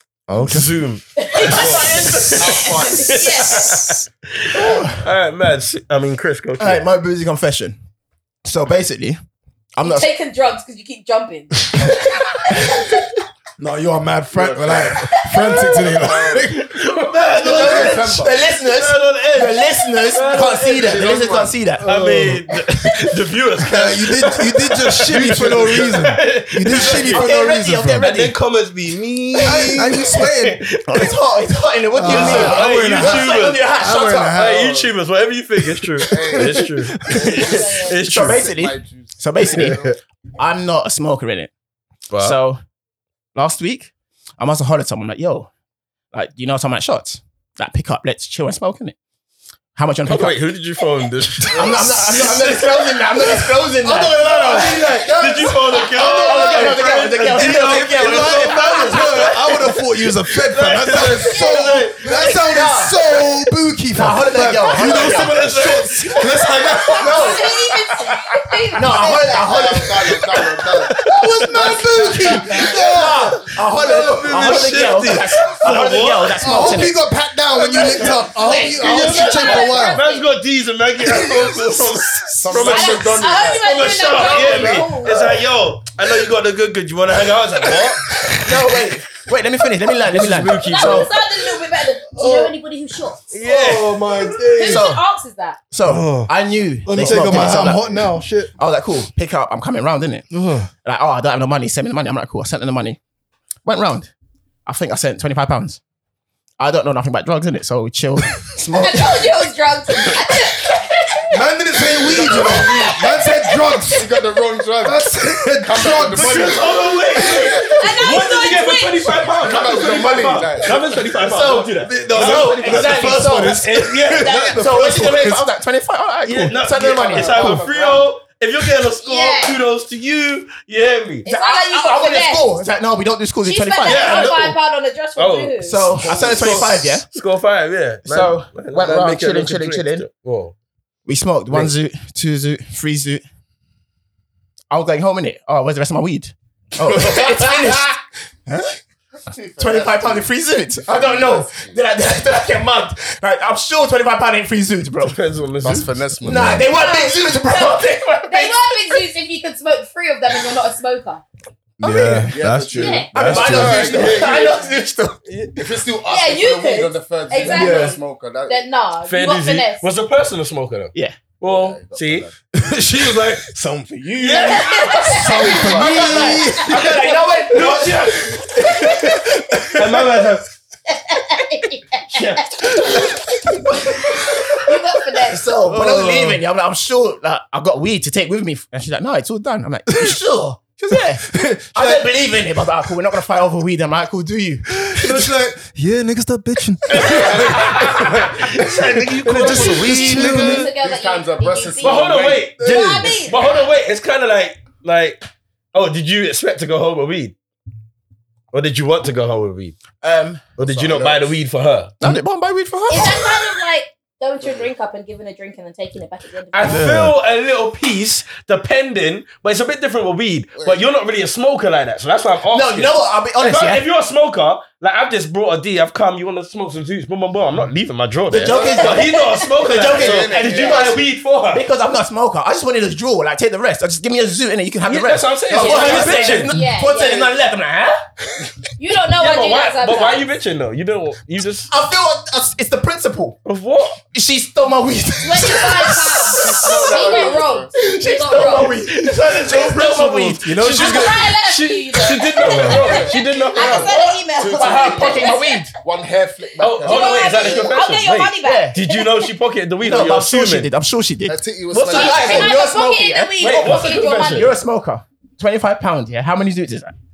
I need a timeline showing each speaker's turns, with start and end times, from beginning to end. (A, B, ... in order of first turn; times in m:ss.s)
0:00.3-0:00.7 A
0:00.3-0:06.8 B
0:01.2-0:03.9 C
0:01.5-0:03.9 D
0:02.3-0:03.5 E
0:04.5-0:05.0 D
0:06.6-0:07.8 D
0:08.4-0:09.2 D
0:09.7-0:10.1 D
0:09.8-0:13.0 C
0:13.6-0:16.7 A
0:14.3-0:15.1 E
0:15.1-0:15.6 C
0:15.8-0:16.6 E
0:15.9-0:21.1 B
0:17.3-0:18.4 E
0:17.4-0:21.8 D
0:17.5-0:18.0 A
0:19.8-0:20.6 C
0:20.5-0:21.6 E
0:21.8-0:23.0 A
0:21.8-0:27.3 B
0:23.6-0:28.1 A
0:26.8-0:28.4 D
0:28.0-0:31.2 B
0:29.4-0:30.8 A
0:29.4-0:30.0 D
0:30.8-0:34.4 D
0:31.9-0:34.9 A
0:32.0-0:33.6 B
0:34.3-0:38.5 B
0:35.8-0:37.6 A
0:36.1-0:36.7 E
0:37.2-0:38.0 C
0:38.0-0:39.8 D
0:38.2-0:40.0 E
0:40.4-0:41.5 D
0:42.1-0:42.4 B
0:42.2-0:42.6 D
0:43.3-0:45.5 D
0:46.1-0:48.9 D
0:49.8-0:50.4 D
0:50.0-1:02.4 B
0:51.5-0:59.2 D
0:51.6-0:52.4 E
0:53.8-0:55.2 A
0:56.0-1:07.4 A
1:01.3-1:01.7 C
1:02.0-1:03.0 D
1:03.9-1:07.5 D
1:04.6-1:08.0 B
1:07.0-1:09.7 C
1:08.8-1:09.9 D
1:09.1-1:11.0 E
1:10.3-1:11.8 B
1:10.9-1:15.6 A
1:11.5-1:13.2 E
1:12.3-1:17.0 D
1:14.0-1:16.9 B
1:16.4-1:20.0 A
1:17.5-1:28.7 B
1:17.7-1:19.2 D
1:17.8-1:18.3 E
1:18.7-1:20.3 C
1:21.0-1:21.8 A
1:22.4-1:24.9 E
1:22.6-1:25.3 C
1:28.4-1:31.1 D
1:30.1-1:31.1 B
1:30.4-1:33.4 C
1:32.1-1:32.5 A
1:33.3-1:34.2 B
1:33.3-1:34.9 A
1:34.2-1:35.6 C
1:34.6-1:35.0 D
1:35.7-1:37.9 D
1:35.8-1:36.3 A
1:36.8-1:38.5 A
1:37.0-1:38.1 E
1:38.6-1:40.3 D
1:40.3-1:40.7 A
1:40.8-1:43.0 D
1:43.6-1:44.1 D
1:44.6-1:45.8 D
1:46.6-1:49.3 D
1:48.8-1:54.0 C
1:51.3-1:54.1 A
1:52.1-1:53.0 E
1:52.4-1:52.7 D
1:53.9-1:55.0 E
1:54.8-1:57.7 A
1:55.6-1:57.8 E
1:56.0-2:04.6 B
1:57.7-1:59.2 C
1:59.4-2:00.8 E
2:01.2-2:03.7 D
2:01.8-2:05.4 A
2:04.2-2:04.5 C
2:04.2-2:08.0 D
2:06.2-2:11.2 B
2:07.1-2:07.6 A
2:09.0-2:09.6 C
2:11.2-2:12.5 C
2:11.2-2:14.3 D
2:13.4-2:15.8 C
2:13.8-2:14.6 B
2:15.2-2:20.5 B
2:15.6-2:17.1 D
2:16.0-2:16.7 E
2:18.0-2:20.0 D
2:21.0-2:23.2 D
2:24.7-2:28.0 D
2:29.3-2:31.8 E
2:29.6-2:35.2 D
2:35.0-2:35.9 B
2:35.6-2:36.7 E
2:36.2-2:38.9 D
2:36.3-2:36.6 A
2:36.7-2:41.2 C
2:41.8-2:44.1 A
2:41.8-2:42.4 D
2:42.3-2:44.8 E
2:42.7-2:43.1 C
2:43.1-2:45.2 D
2:43.4-2:44.5 B
2:45.2-2:45.6 B
2:45.6-2:48.6 E
2:46.1-2:49.8 C
2:47.4-2:48.0 A
2:49.1-2:52.3 B
2:50.9-2:51.3 D
2:51.4-2:52.4 E
2:52.5-3:00.2 A
2:54.2-2:55.2 B
2:54.4-2:56.5 C
2:55.0-2:58.9 D
2:55.2-2:56.6 E
2:57.5-2:58.3 B
2:59.7-3:00.5 B
3:00.9-3:03.3 C
3:02.1-3:02.8 B
3:02.8-3:03.2 A
3:03.7-3:04.2 D
3:04.5-3:05.4 C
3:05.2-3:15.3 D
3:05.6-3:06.4 A
3:09.9-3:10.2 A
3:10.9-3:12.1 A
3:14.7-3:20.7 A
3:16.9-3:19.8 D
3:16.9-3:18.0 E
3:17.0-3:20.6 B
3:19.3-3:23.6 C
3:19.5-3:22.5 E
3:21.8-3:25.2 B
3:22.6-3:23.2 A
3:25.7-3:27.4 B
3:28.5-3:29.8 B
3:29.9-3:30.5 D
3:30.6-3:32.0 B
3:30.6-3:31.4 E
3:32.0-3:33.6 D
3:32.9-3:36.9 C
3:34.4-3:34.7 E
3:36.5-3:51.6 B
3:36.6-3:37.2 A
3:40.6-3:40.8 E
3:42.5-3:43.8 D
3:48.3-3:51.0 D
3:48.4-3:48.9 E
3:48.5-3:49.8 C
3:49.7-3:51.0 E
3:51.5-3:58.0 D
3:54.8-3:56.5 B
3:55.5-3:56.3 E
3:55.5-3:57.4 C
3:58.8-4:00.3 C
3:59.2-4:01.7 B
4:01.7-4:03.4 D
4:03.4-4:04.0 B
4:04.0-4:11.0 D
4:05.2-4:08.8 C
4:06.4-4:07.7 E
4:08.7-4:14.0 B
4:10.4-4:11.3 A
4:10.6-4:15.7 C
4:12.4-4:12.8 A
4:12.5-4:18.0 E
4:13.6-4:15.8 D
4:16.6-4:20.7 B
4:16.8-4:19.3 C
4:18.4-4:18.8 D
4:19.8-4:21.4 D
4:21.2-4:22.6 E
4:21.7-4:22.5 B
4:21.9-4:24.5 C
4:21.9-4:26.9 D
4:23.4-4:24.5 B